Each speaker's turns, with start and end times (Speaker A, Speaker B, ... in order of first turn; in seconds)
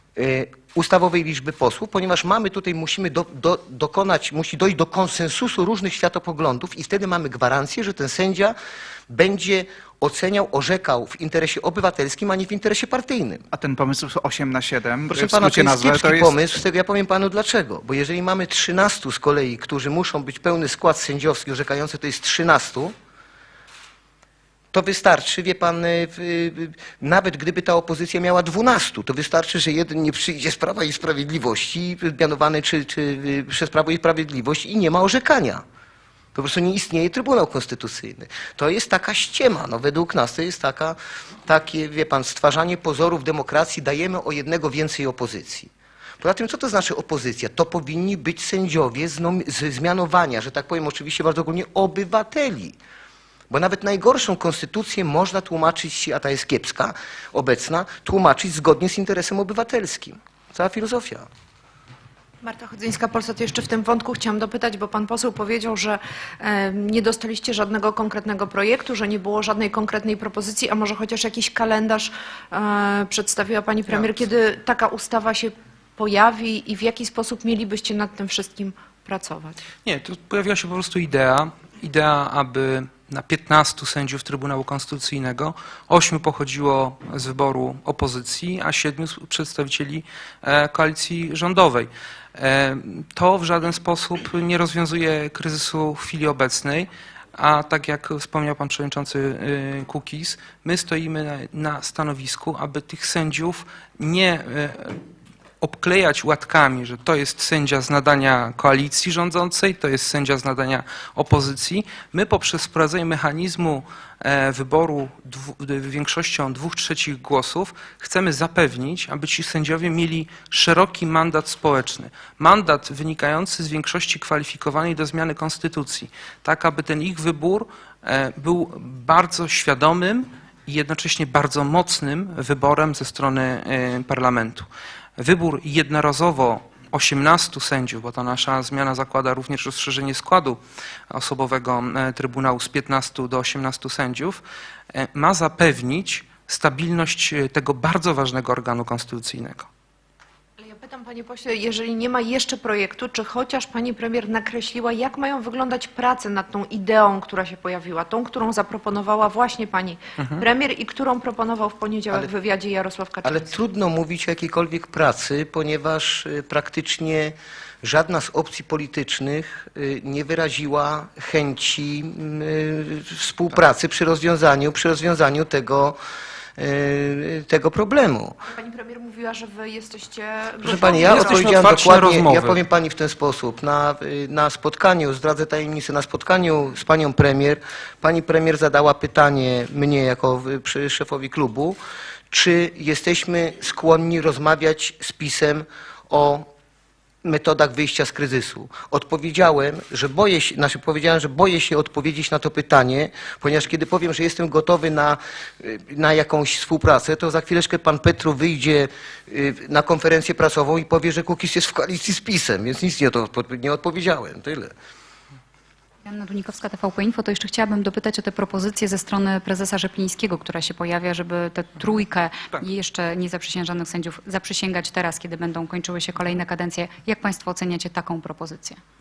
Speaker A: 0.2-8.6, 9.1-13.4, 15.1-22.9, 24.7-35.6, 36.4-52.8, 53.5-61.3, 163.2-176.0, 176.6-178.3, 180.6-191.8, 192.3-196.5, 197.2-214.7
Speaker B: 13.5-16.4
Speaker C: 62.4-79.5, 150.6-163.5, 178.6-181.6
Speaker D: 79.8-105.0, 105.6-144.4, 144.9-149.7, 180.7-182.6
Speaker E: 216.1-228.8